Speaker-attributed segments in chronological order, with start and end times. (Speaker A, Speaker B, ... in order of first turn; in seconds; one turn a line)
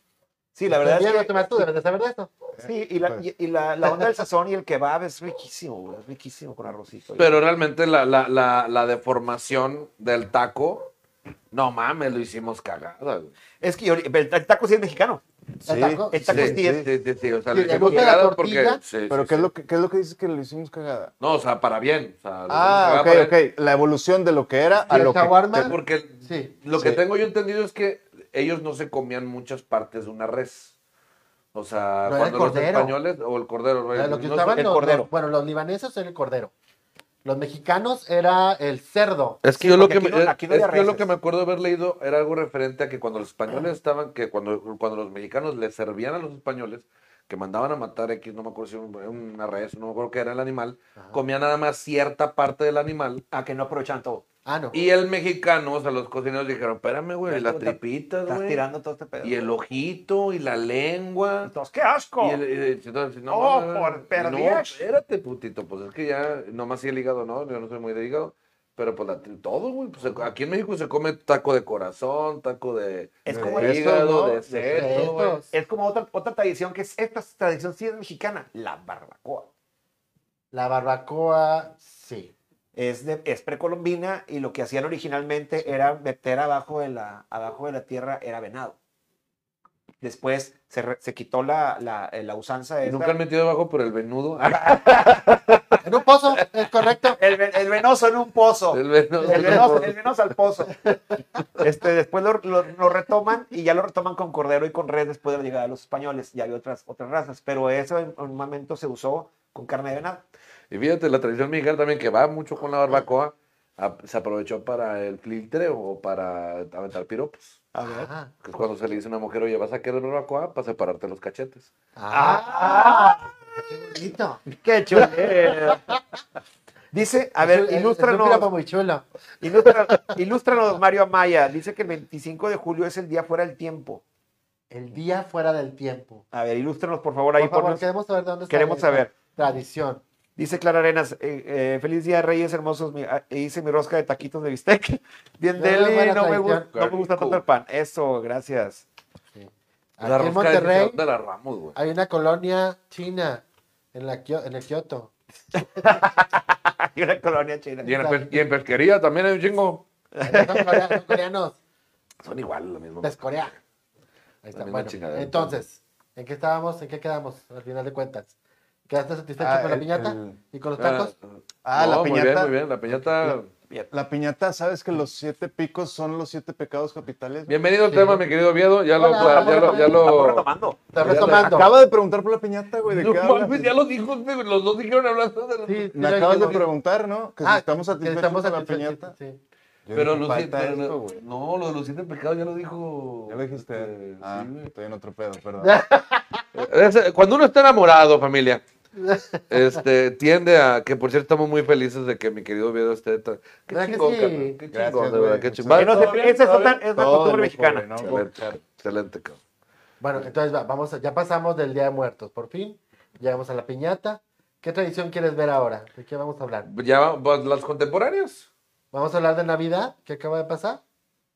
Speaker A: 0.5-1.7
Speaker B: 0.7-2.3
Speaker C: 2.6-3.2
Speaker A: 2.6-7.4
Speaker D: 7.2-10.9
Speaker D: 11.5-13.3
Speaker A: 13.6-15.2
Speaker C: 15.6-16.9
Speaker B: 15.6-16.3
Speaker A: 16.1-16.9
Speaker D: 16.3-19.5
Speaker B: 17.5-18.8
Speaker A: 17.6-18.1
Speaker C: 19.1-21.1
Speaker D: 21.2-23.3
Speaker C: 22.5-25.6
Speaker B: 24.9-26.5
Speaker D: 25.5-30.7
Speaker C: 26.7-27.0
Speaker D: 31.5-34.6
Speaker B: 32.0-32.9
Speaker B: 33.9-36.5
Speaker A: 34.5-35.1
Speaker B: 37.2-39.4
Speaker D: 39.4-53.2
Speaker A: 39.6-41.1
Speaker A: 53.3-54.2
Speaker B: 54.5-54.8
Speaker D: 54.7-58.6
Speaker A: 57.3-59.5
Speaker D: 59.2-61.5
Speaker A: 61.4-62.4
Speaker D: 62.2-75.5
Speaker A: 63.3-64.8
Speaker A: 73.2-73.8
Speaker C: 73.3-75.1
Speaker B: 74.7-75.5
Speaker A: 75.5-79.5
Speaker B: 80.5-82.3
Speaker A: 82.7-88.8
Speaker A: 90.0-93.2
Speaker D: 92.8-95.8
Speaker B: 95.8-97.2
Speaker A: 97.1-100.9
Speaker D: 98.7-100.0
Speaker B: 99.2-99.9
Speaker A: 101.6-110.2
Speaker D: 110.7-117.6
Speaker A: 117.7-118.1
Speaker B: 117.8-118.3
Speaker D: 118.4-121.7
Speaker B: 122.0-126.0
Speaker A: 122.1-123.3
Speaker A: 124.5-125.8
Speaker A: 126.9-128.5
Speaker B: 127.4-129.1
Speaker A: 129.4-134.0
Speaker B: 129.6-130.1
Speaker B: 134.7-136.2
Speaker A: 136.3-137.8
Speaker B: 137.4-140.0
Speaker A: 138.5-139.1
Speaker A: 140.4-148.8
Speaker B: 145.6-146.7
Speaker D: 146.7-147.4
Speaker B: 149.3-151.0
Speaker D: 150.0-151.8
Speaker B: 151.7-155.1
Speaker A: 155.6-157.9
Speaker D: 157.8-159.8
Speaker B: 157.8-158.4
Speaker A: 160.1-161.2
Speaker B: 160.2-161.6
Speaker D: 162.2-163.2
Speaker B: 163.0-163.6
Speaker B: 164.4-168.3
Speaker D: 164.6-165.6
Speaker B: 168.9-171.1
Speaker C: 169.4-170.4
Speaker D: 170.8-173.5
Speaker C: 171.6-173.4
Speaker C: 173.9-177.5
Speaker D: 177.5-180.5
Speaker B: 177.9-178.2
Speaker B: 179.0-180.1
Speaker A: 179.1-180.8
Speaker B: 180.9-181.7
Speaker D: 181.0-181.6
Speaker C: 181.0-183.7
Speaker D: 182.8-186.6
Speaker B: 185.7-186.7
Speaker C: 185.9-189.1
Speaker B: 187.4-189.4
Speaker C: 189.8-191.2
Speaker D: 189.9-194.7
Speaker C: 193.3-195.7
Speaker B: 195.6-196.4
Speaker D: 196.5-198.6
Speaker B: 198.9-199.6
Speaker D: 199.5-206.3
Speaker B: 203.7-204.6
Speaker C: 204.7-208.6
Speaker A: 205.7-207.9
Speaker D: 208.0-209.4
Speaker B: 210.0-216.7
Speaker D: 216.7-218.5
Speaker B: 218.9-220.8